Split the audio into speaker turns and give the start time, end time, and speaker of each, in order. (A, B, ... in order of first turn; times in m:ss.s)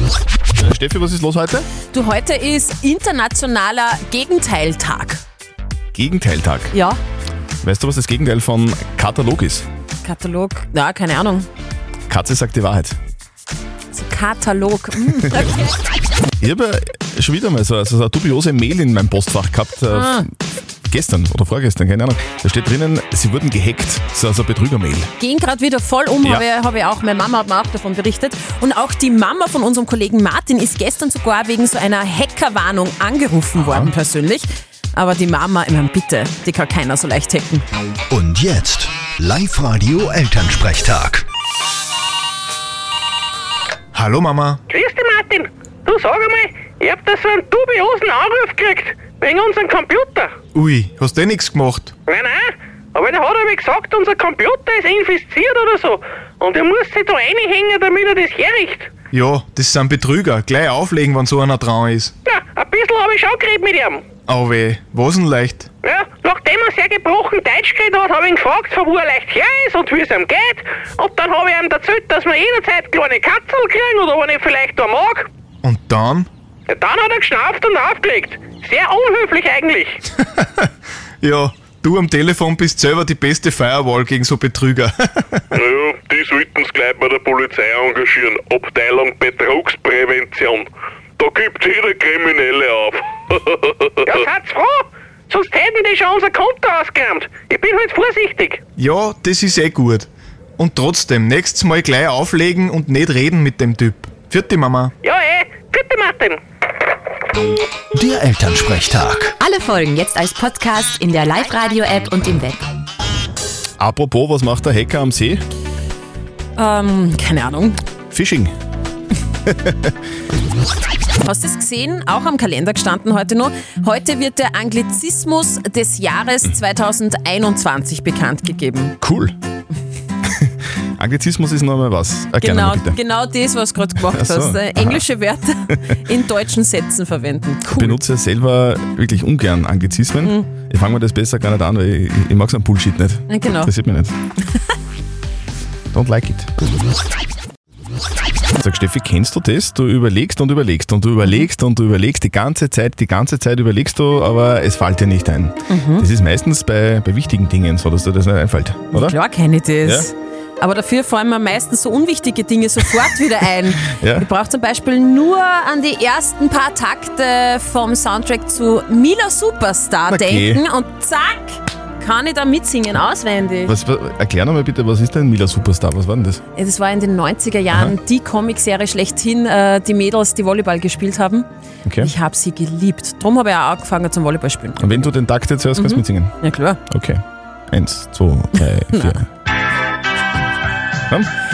0:00.6-0:01.7 A
0:01.9-0:05.2 B
0:05.9-0:06.7 A
0:06.7-0:07.0 B
0:07.6-0:09.7 A
0:10.0-0:11.5 B
0:12.1-0:13.0 A
0:13.9-0:15.7 B
0:16.4-0:20.2 A
0:19.9-0:20.3 B
0:20.9-0:25.1 A
0:25.2-0:37.6 B
0:33.6-0:33.9 A
0:38.1-0:41.3 C
0:43.9-0:44.6 D
0:44.7-0:50.3 E
0:50.5-0:51.9 D
0:52.1-0:58.9 E
0:59.1-1:02.1 D
1:02.3-1:04.0 E
1:04.3-1:05.7 D
1:05.8-1:15.3 E
1:15.6-1:16.3 D
1:16.7-1:20.0 E
1:20.2-1:20.7 D
1:21.2-1:25.5 D
1:25.5-1:30.7 F
1:31.2-1:34.3 F
1:34.0-1:38.6 E
1:38.8-1:44.9 D
1:45.0-1:46.4 E
1:47.9-1:49.4 C
1:49.4-1:52.6 G
1:53.8-1:55.4 A
1:56.6-1:57.8 B
1:58.1-1:58.5 A
1:59.5-1:59.9 A
2:01.2-2:09.0 B
2:09.0-2:09.4 A
2:10.3-2:13.0 A
2:12.4-2:18.0 B
2:14.0-2:15.0 A
2:15.7-2:16.0 A
2:17.8-2:24.1 A
2:23.3-2:23.7 B
2:25.9-2:26.5 A
2:28.6-2:39.2 A
2:35.7-2:36.0 B
2:38.9-2:53.8 B
2:39.8-2:40.1 A
2:44.0-2:44.3 A
2:50.1-2:50.6 A
2:53.7-2:56.4 A
2:56.6-3:01.5 B
3:01.8-3:02.1 A
3:02.0-3:05.1 B
3:04.8-3:06.3 A
3:05.8-3:06.8 B
3:06.9-3:09.3 A